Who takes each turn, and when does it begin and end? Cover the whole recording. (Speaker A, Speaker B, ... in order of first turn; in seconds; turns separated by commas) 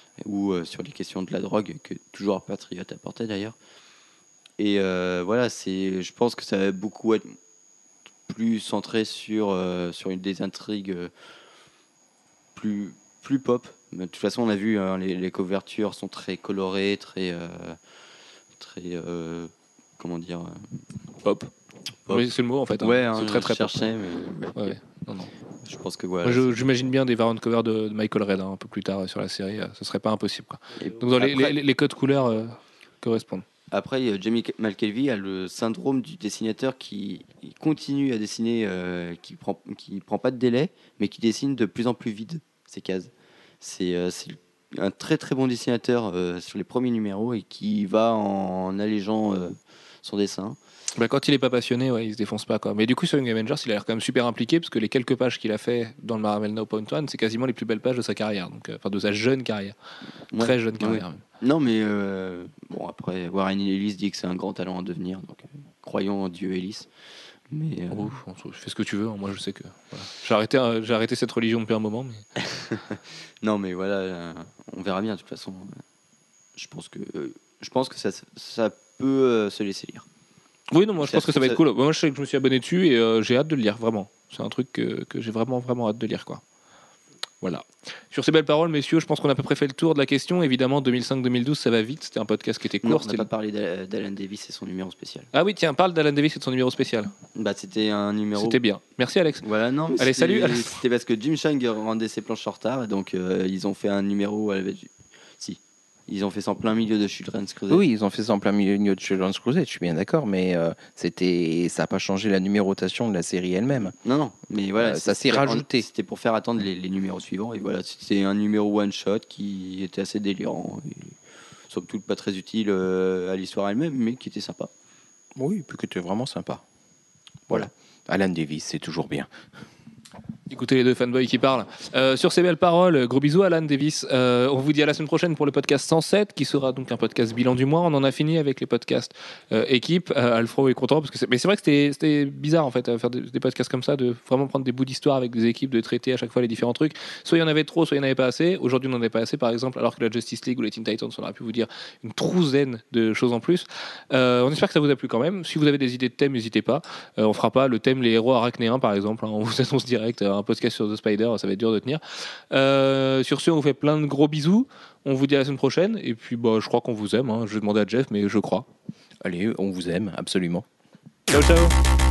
Speaker A: 0.2-3.5, Speaker A: 4.6-7.3, Speaker A: 8.3-11.1, Speaker A: 12.6-17.8, Speaker A: 18.6-20.8, Speaker B: 21.2-21.5, Speaker B: 22.1-23.9, Speaker A: 22.8-24.8, Speaker B: 24.6-25.3, Speaker A: 25.6-26.9, Speaker B: 26.2-33.5, Speaker A: 30.8-31.6, Speaker A: 33.7-50.6, Speaker B: 51.0-59.8, Speaker A: 60.3-66.9, Speaker B: 60.4-61.2, Speaker A: 67.5-68.1, Speaker B: 67.9-72.2, Speaker A: 72.4-75.8, Speaker A: 76.6-80.1, Speaker B: 80.7-86.4, Speaker A: 81.0-81.6, Speaker B: 87.4-93.3, Speaker A: 92.8-95.3, Speaker B: 95.3-97.1, Speaker A: 97.3-98.6, Speaker B: 98.4-99.5, Speaker A: 99.4-107.8, Speaker B: 100.0-100.8, Speaker C: 107.7-114.0, Speaker A: 114.0-121.2, Speaker C: 114.8-115.8, Speaker A: 121.7-124.7, Speaker C: 125.4-126.6, Speaker C: 127.5-129.3, Speaker B: 130.5-168.7, Speaker C: 169.2-170.7, Speaker B: 171.3-171.8